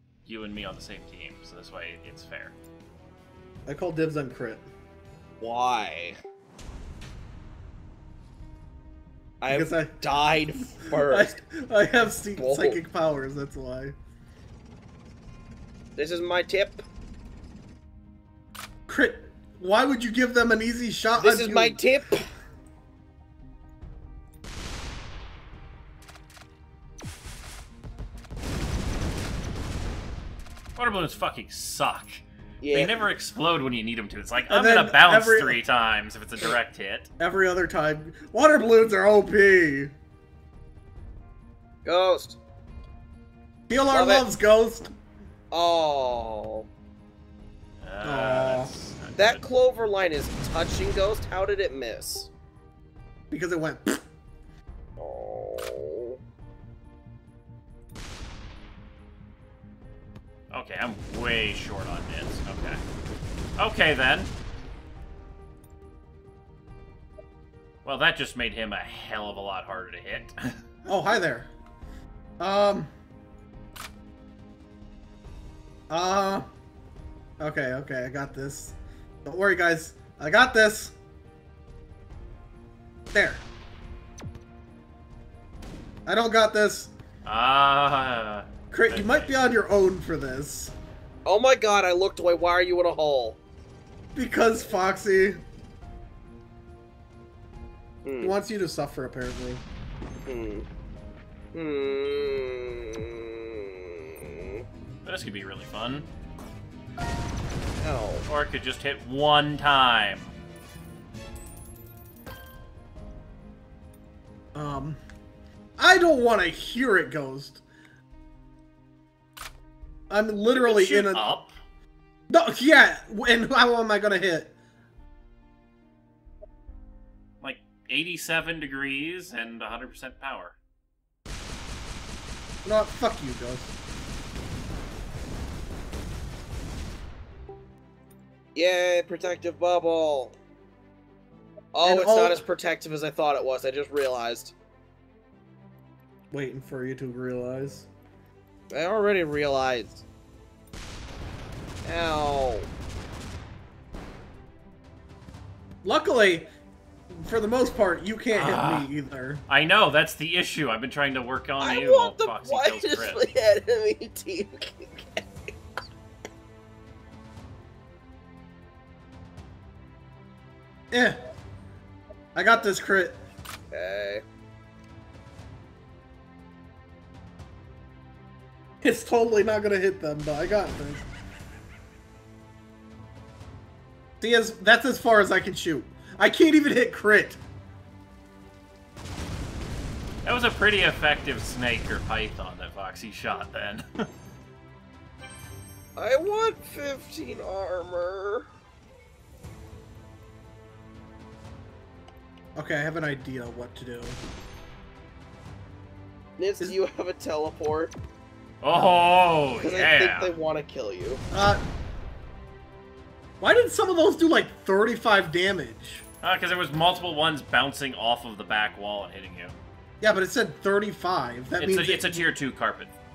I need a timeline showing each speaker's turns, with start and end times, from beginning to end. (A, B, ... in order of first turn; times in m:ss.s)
0:00.2-0:02.5 A
0:03.7-0:04.7 B
0:05.4-0:06.2 C
0:09.4-0:11.4 C
0:09.5-0:10.0 B
0:10.8-0:14.0 B
0:12.4-0:12.8 C
0:16.0-0:16.8 C
0:18.9-0:21.8 B
0:21.2-0:22.3 C
0:30.8-0:37.1 A
0:32.6-0:33.0 C
0:34.5-0:35.6 B
0:37.2-0:39.9 B
0:41.8-0:42.4 C
0:43.7-0:44.9 B
0:43.9-0:44.2 C
0:45.5-0:46.7 C
0:47.8-0:49.4 A
0:48.0-0:48.7 B
0:49.2-0:52.3 C
0:53.3-0:54.0 B
0:55.0-0:56.2 C
1:00.5-1:02.8 A
1:03.6-1:04.3 A
1:07.8-1:10.6 A
1:10.8-1:11.5 B
1:12.4-1:12.9 B
1:15.9-1:16.5 B
1:17.4-1:20.9 B
1:23.1-1:23.4 B
1:26.0-1:26.9 B
1:27.2-1:29.3 A
1:28.7-1:30.7 B
1:31.2-1:33.4 C
1:34.1-1:35.4 B
1:38.0-1:38.4 C
1:38.2-1:39.6 B
1:40.2-1:40.7 C
1:41.5-1:44.6 C
1:45.0-1:46.0 A
1:47.7-1:48.2 C
1:48.3-1:50.3 A
1:54.5-1:55.0 B
1:55.8-1:57.6 B
2:00.1-2:01.3 B
2:00.5-2:01.5 A
2:02.3-2:04.5 B
2:07.4-2:10.6 A
2:12.6-2:13.7 B
2:18.5-2:20.3 C
2:21.7-2:24.5 C
2:21.8-2:22.4 B
2:26.3-2:27.9 B
2:28.7-2:30.0 C
2:31.8-2:32.7 C
2:35.8-2:36.5 B
2:37.1-2:39.4 B
2:38.3-2:38.9 A
2:39.5-2:43.3 A
2:41.6-2:45.5 C
2:50.9-2:51.2 B
2:52.3-2:53.2 B
2:53.7-2:54.2 C
2:58.8-3:01.1 B
3:04.2-3:07.4 B
3:10.2-3:14.1 A
3:16.0-3:18.5 C
3:22.5-3:24.2 B
3:26.4-3:27.9 C
3:28.6-3:30.3 A
3:29.6-3:31.2 C
3:31.3-3:31.6 B
3:33.4-3:36.0 B
3:36.2-3:39.5 A
3:40.0-3:42.3 B
3:41.6-3:42.9 A